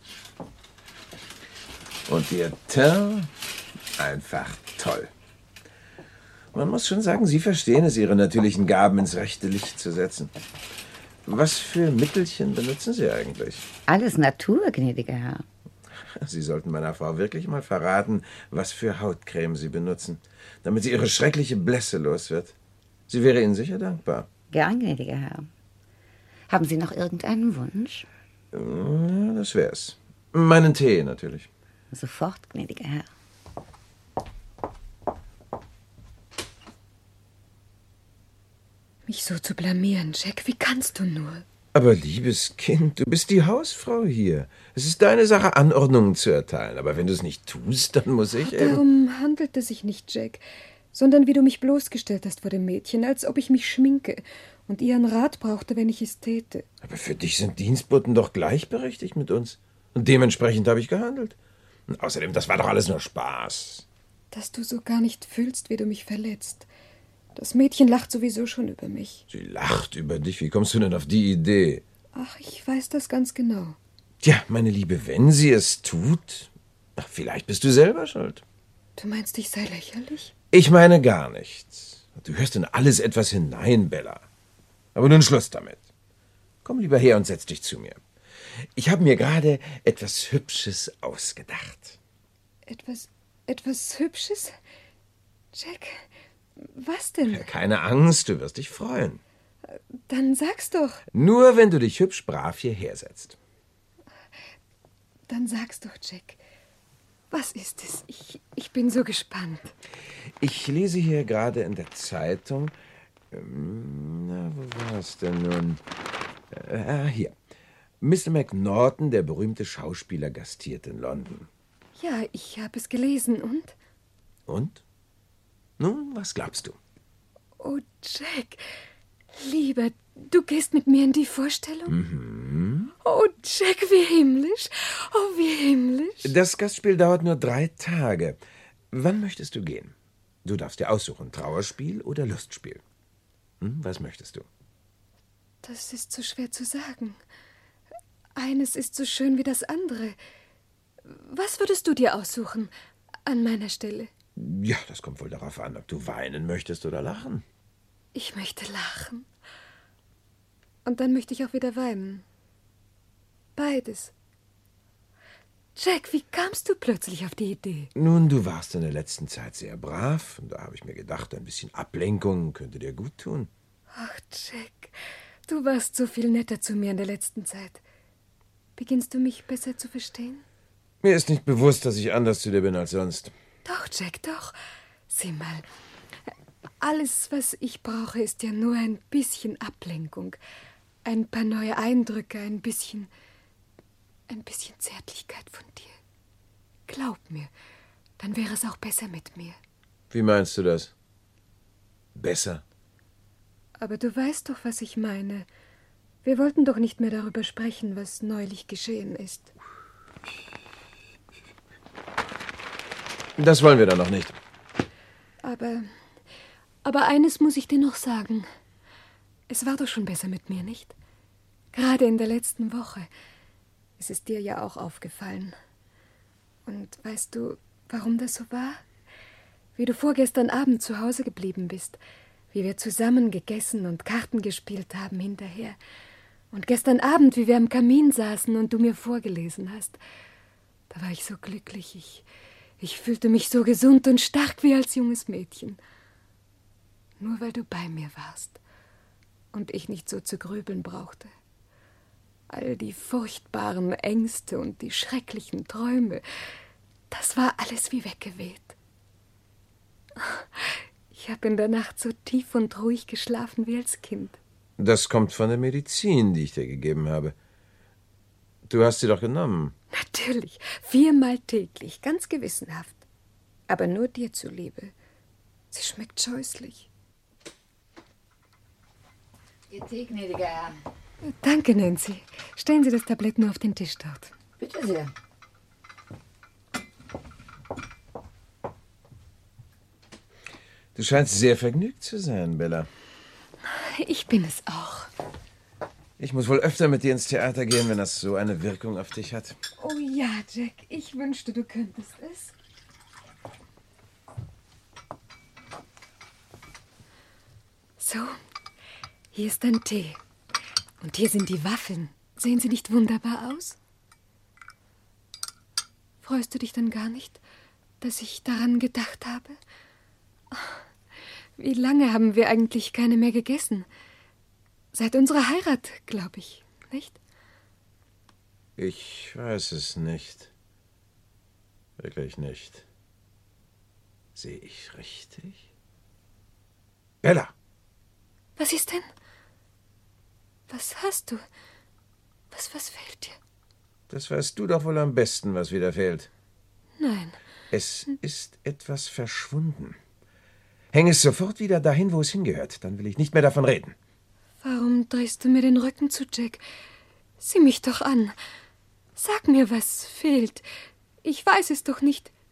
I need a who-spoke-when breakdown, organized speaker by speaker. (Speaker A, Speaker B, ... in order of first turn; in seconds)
Speaker A: 2.1-3.3, 4.0-5.1, 6.5-10.3, 11.3-13.7, 16.0-22.6, 23.1-24.3, 28.5-31.5, 41.7-48.8, 56.8-61.4, 61.9-63.9, 69.3-71.8, 74.2-78.4, 80.5-84.3, 85.0-85.8, 86.6-88.0, 88.8-92.0, 97.3-99.2, 101.1-103.4, 110.4-112.8, 113.3-115.8, 116.5-117.3, 118.0-121.5, 124.5-124.8, 125.8-126.8, 131.9-132.9, 136.2-138.4, 138.9-142.8, 143.6-144.5, 154.4-157.4, 167.9-173.5, 181.0-183.3, 200.1-200.9, 202.2-202.6, 213.4-214.4, 264.8-267.4, 268.7-269.7, 290.9-292.9, 296.2-299.6, 328.8-330.5, 332.0-332.9, 334.4-335.6, 337.2-337.5, 344.1-346.3, 347.7-350.0, 350.9-353.9
Speaker B: 13.9-15.4, 24.5-25.5, 26.5-28.1, 31.9-33.1, 279.7-280.8, 284.6-285.1
Speaker C: 39.1-41.4, 48.4-56.7, 64.3-66.7, 67.3-69.2, 72.2-73.8, 79.0-80.3, 92.7-94.6, 95.5-96.1, 96.6-97.5, 99.7-101.0, 105.3-106.4, 107.3-109.7, 122.0-123.8, 127.6-128.6, 129.4-132.0, 133.0-136.3, 145.6-147.2, 148.4-150.2, 151.1-152.7, 153.3-154.1, 158.2-159.3, 160.8-162.2, 163.6-164.1, 165.8-167.9, 173.9-174.9, 175.5-177.8, 178.8-180.4, 183.7-184.5, 185.1-185.7, 186.8-190.4, 191.1-193.1, 194.3-196.0, 196.9-197.5, 198.2-199.6, 203.8-205.5, 206.2-209.5, 215.4-215.9, 216.8-218.5, 219.5-220.9, 221.7-223.1, 224.0-225.6, 226.7-228.8, 229.8-232.0, 232.5-235.8, 236.5-240.0, 240.9-242.2, 242.8-245.8, 247.2-248.6, 249.5-251.3, 252.5-256.2, 257.1-258.8, 260.2-264.4, 269.9-273.0, 273.7-274.9, 275.7-276.9, 281.2-284.3, 293.7-295.1, 299.8-302.5, 308.0-308.4, 309.3-310.2, 311.0-313.8, 316.2-317.4, 318.0-319.6, 320.5-320.8, 321.6-323.9, 324.9-327.2, 338.6-339.1, 340.7-341.4, 342.5-343.4, 347.0-347.4, 354.6-356.6, 357.4-358.4, 359.2-360.6, 361.2-362.3